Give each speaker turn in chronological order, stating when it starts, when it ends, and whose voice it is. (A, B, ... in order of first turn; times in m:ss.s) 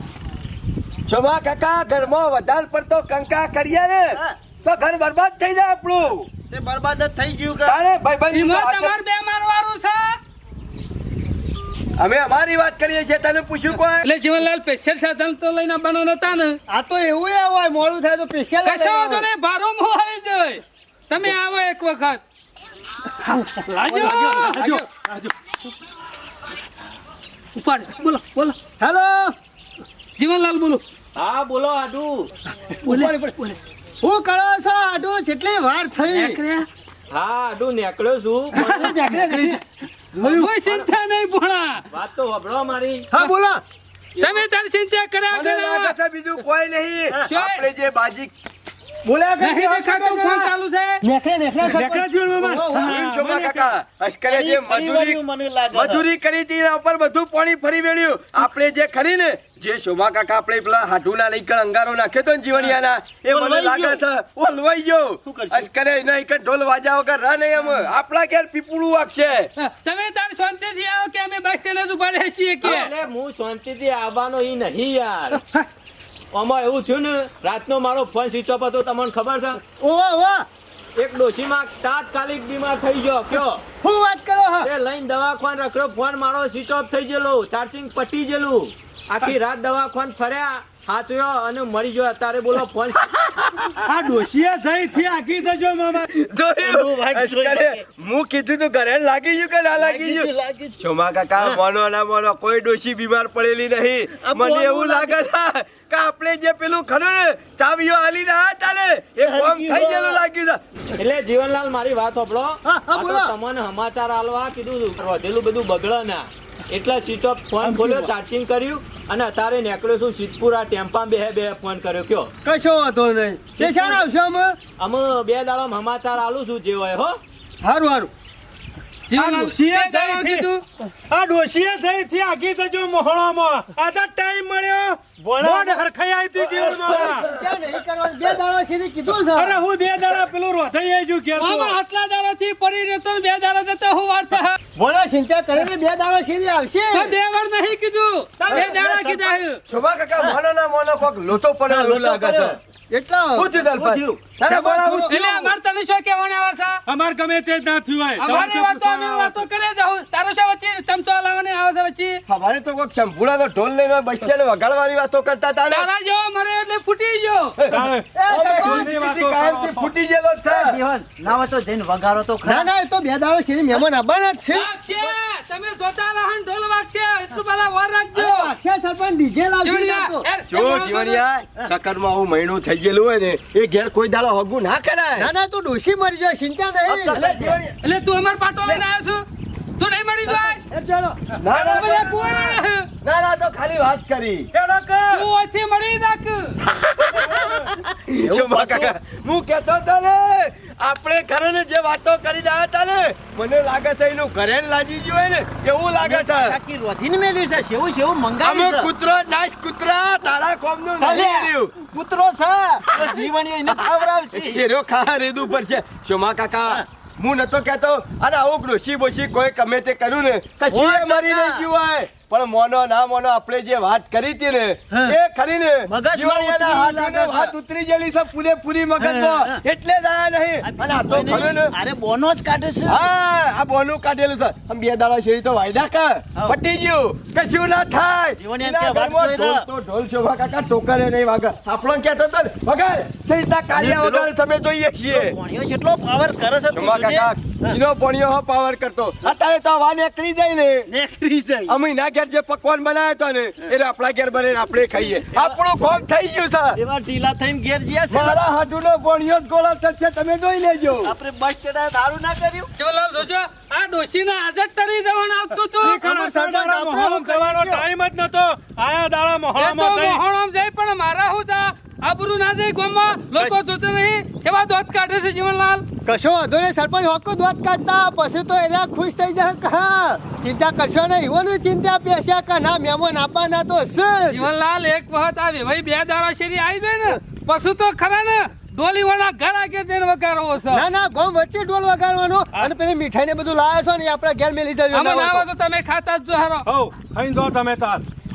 0:01.1-0:06.3 A
0:06.5-0:07.8 B
0:07.6-0:09.0 A
0:08.3-0:10.2 C
0:12.0-0:14.1 A
0:14.0-0:16.6 C
0:16.7-0:19.2 D
0:18.6-0:22.2 C
0:23.2-0:24.8 C
0:23.3-0:24.8 D
0:24.2-0:25.3 E
0:27.6-0:28.6 C
0:28.8-0:29.3 D
0:30.2-0:30.8 C
0:31.2-0:32.3 F
0:32.8-0:33.3 D
0:32.8-0:33.6 C
0:34.0-0:36.4 D
0:36.1-0:36.7 C
0:37.1-0:38.9 F
0:38.5-0:39.6 D
0:38.6-0:39.0 C
0:39.3-0:39.5 E
0:40.2-0:40.5 D
0:40.2-0:41.8 C
0:40.6-0:40.9 F
0:41.9-0:43.1 F
0:43.1-0:43.6 D
0:44.2-0:46.0 C
0:45.3-0:48.3 A
0:47.3-0:47.6 C
0:49.0-0:50.5 D
0:49.4-0:51.0 C
0:51.0-0:53.0 D
0:51.6-0:53.7 E
0:52.8-0:55.2 A
0:54.3-0:56.0 B
0:55.7-1:09.5 A
1:03.3-1:04.0 B
1:05.2-1:05.7 B
1:09.6-1:12.9 C
1:12.6-1:15.4 F
1:16.3-1:19.6 F
1:19.8-1:20.5 D
1:21.0-1:23.6 F
1:23.8-1:24.7 D
1:24.6-1:33.2 F
1:33.2-1:33.7 A
1:33.8-1:36.1 E
1:36.1-1:50.6 A
1:36.6-1:37.8 B
1:39.8-1:40.8 B
1:44.2-1:45.2 B
1:49.2-1:50.2 B
1:51.0-2:02.3 F
1:52.6-1:53.3 D
1:57.6-1:58.1 E
2:02.4-2:04.6 D
2:03.6-2:04.0 F
2:04.8-2:07.2 F
2:07.6-2:08.1 D
2:09.1-2:10.6 C
2:09.1-2:10.5 E
2:11.1-2:17.3 E
2:15.2-2:15.8 D
2:16.6-2:19.6 D
2:16.8-2:17.2 A
2:19.2-2:21.8 E
2:21.4-2:24.6 C
2:24.8-2:27.1 D
2:26.9-2:29.6 C
2:28.4-2:29.4 D
2:28.5-2:28.8 A
2:29.7-2:32.6 A
2:31.7-2:32.6 B
2:32.9-2:33.5 D
2:33.3-2:35.5 A
2:33.7-2:34.3 B
2:34.4-2:35.2 D
2:35.1-2:36.8 C
2:36.9-2:39.4 E
2:38.2-2:42.2 C
2:42.3-2:45.9 A
2:45.7-2:47.6 C
2:47.6-2:50.8 A
2:47.7-2:49.9 E
2:48.1-2:49.0 D
2:50.4-2:52.7 B
2:52.4-2:54.7 D
2:54.5-2:58.5 C
2:58.1-3:00.2 D
2:59.6-3:01.2 C
3:00.5-3:05.3 A
3:05.2-3:07.2 D
3:06.9-3:07.6 B
3:07.1-3:07.8 A
3:07.8-3:09.2 C
3:09.8-3:10.6 C
3:10.7-3:11.1 B
3:11.3-3:12.4 A
3:11.5-3:12.9 C
3:11.5-3:12.5 E
3:13.0-3:14.5 A
3:14.5-3:15.2 E
3:15.1-3:16.6 C
3:16.6-3:26.6 A
3:17.1-3:17.7 E
3:18.2-3:18.9 B
3:26.0-3:28.9 B
3:28.4-3:31.8 A
3:31.0-3:34.6 B
3:32.9-3:51.7 A
3:40.7-3:41.6 B
3:45.9-3:47.5 B
3:49.0-3:49.6 B
3:50.6-3:53.0 B
3:52.9-4:05.4 A
3:58.4-3:59.6 B
4:03.7-4:04.3 B
4:05.0-4:07.8 B
4:06.7-4:10.9 A
4:10.9-4:11.7 B
4:11.6-4:16.8 A
4:16.8-4:18.4 B
4:18.1-4:21.2 A
4:21.0-4:22.7 B
4:22.8-4:26.0 C
4:25.8-4:30.2 E
4:25.9-4:27.8 D
4:29.6-4:35.8 C
4:36.0-4:44.4 D
4:44.3-4:50.8 C
4:50.7-4:55.4 D
4:54.9-4:56.6 C
4:56.6-4:58.0 E